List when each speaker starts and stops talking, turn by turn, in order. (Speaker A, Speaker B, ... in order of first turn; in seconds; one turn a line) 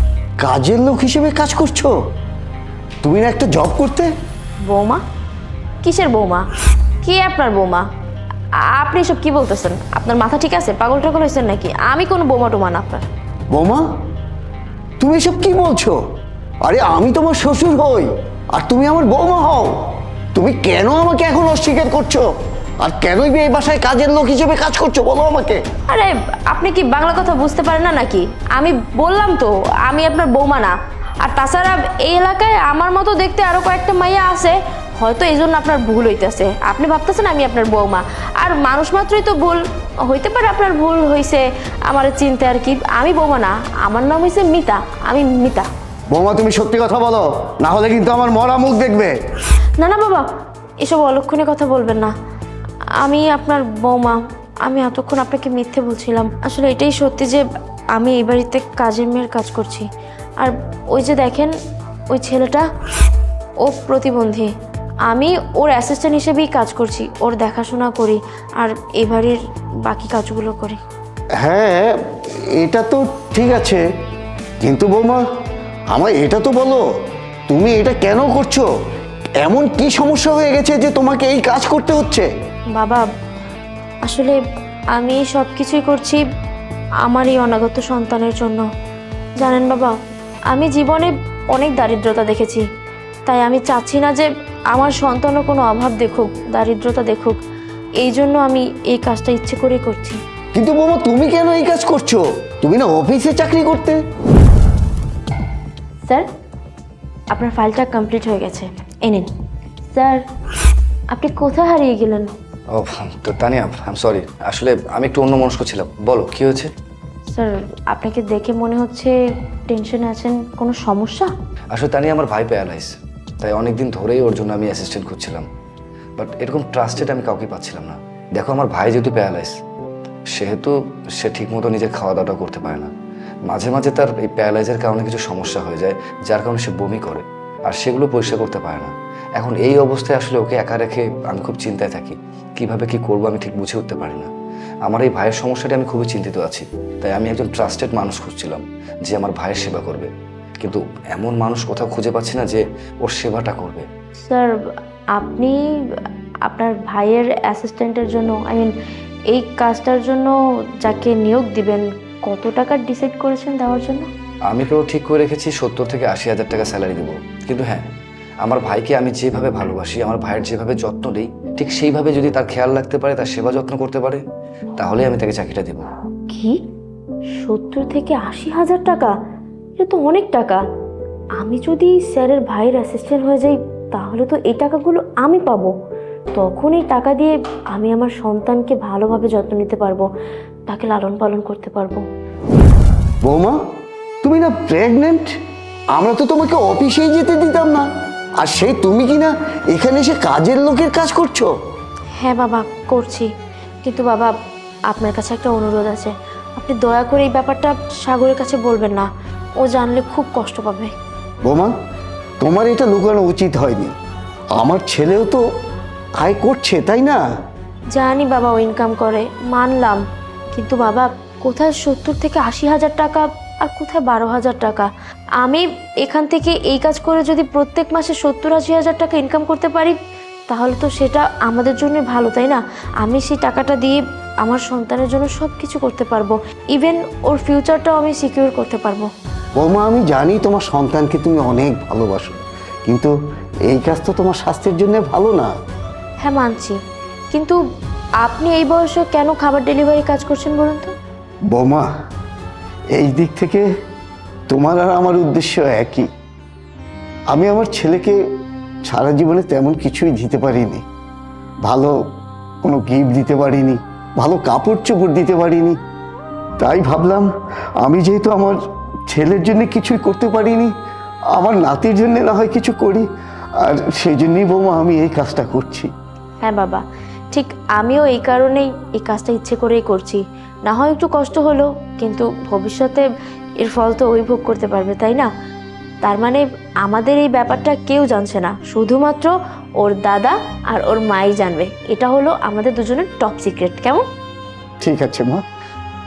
Speaker A: 0.4-1.9
Speaker A: 3.0-4.1
Speaker B: 4.6-5.0
Speaker B: 5.8-6.5
Speaker B: 7.0-7.9
Speaker B: 8.7-13.1
Speaker A: 13.5-13.8
Speaker A: 15.0-16.0
Speaker A: 16.6-19.8
Speaker A: 20.3-22.3
Speaker A: 22.8-25.6
Speaker B: 25.9-45.7
Speaker A: 46.1-49.1
Speaker B: 49.8-50.3
Speaker B: 50.8-52.1
Speaker B: 53.0-57.4
Speaker B: 58.0-59.9
Speaker B: 60.4-61.5
Speaker B: 62.1-62.6
Speaker B: 63.6-64.5
Speaker B: 65.1-70.8
Speaker A: 71.4-71.9
Speaker A: 72.5-73.8
Speaker A: 74.6-75.2
Speaker A: 75.9-76.8
Speaker A: 77.5-78.7
Speaker A: 79.4-82.3
Speaker B: 82.8-83.0
Speaker B: 84.0-84.4
Speaker B: 84.9-86.2
Speaker B: 87.0-88.7
Speaker B: 89.4-89.9
Speaker B: 90.5-92.6
Speaker B: 93.2-97.4
Speaker B: 98.0-100.2
Speaker A: 100.5-104.0
Speaker B: 107.3-109.3
Speaker B: 109.9-110.2
Speaker B: 111.1-112.3
Speaker C: 112.7-116.7
Speaker B: 117.3-119.2
Speaker B: 119.7-121.3
Speaker C: 121.7-125.5
Speaker C: 126.2-129.6
Speaker C: 130.3-132.9
Speaker C: 133.5-144.3
Speaker C: 144.8-153.9
Speaker B: 154.2-154.6
Speaker B: 155.2-158.7
Speaker B: 159.3-164.1
Speaker C: 164.5-167.9
Speaker C: 168.4-174.2
Speaker C: 174.8-175.9
Speaker B: 176.3-176.6
Speaker B: 177.4-179.1
Speaker B: 179.8-180.6
Speaker B: 181.4-185.7
Speaker B: 186.3-190.1
Speaker B: 190.7-192.0
Speaker A: 193.2-193.6
Speaker A: 194.2-195.3
Speaker A: 196.0-197.9
Speaker A: 198.4-201.5
Speaker B: 202.2-203.3
Speaker B: 203.8-204.3
Speaker B: 204.9-209.1
Speaker B: 209.6-210.9
Speaker A: 211.4-211.7
Speaker A: 212.4-213.9
Speaker A: 214.6-215.4
Speaker A: 216.2-217.2
Speaker B: 217.9-220.0
Speaker B: 220.5-224.9
Speaker B: 225.4-230.0
Speaker B: 230.5-239.1
Speaker A: 239.6-243.1
Speaker A: 243.7-245.5
Speaker B: 246.2-246.8
Speaker B: 247.3-247.6
Speaker B: 248.2-250.9
Speaker A: 251.5-251.9
Speaker A: 252.9-253.7
Speaker A: 254.5-256.1
Speaker A: 257.3-258.2
Speaker A: 258.9-260.8
Speaker A: 261.6-261.9
Speaker A: 262.6-265.8
Speaker A: 266.6-267.3
Speaker A: 267.8-268.6
Speaker A: 269.1-270.7
Speaker A: 271.3-273.1
Speaker A: 273.6-275.9
Speaker B: 276.4-283.1
Speaker B: 283.6-285.3
Speaker B: 286.0-294.0
Speaker A: 294.8-295.4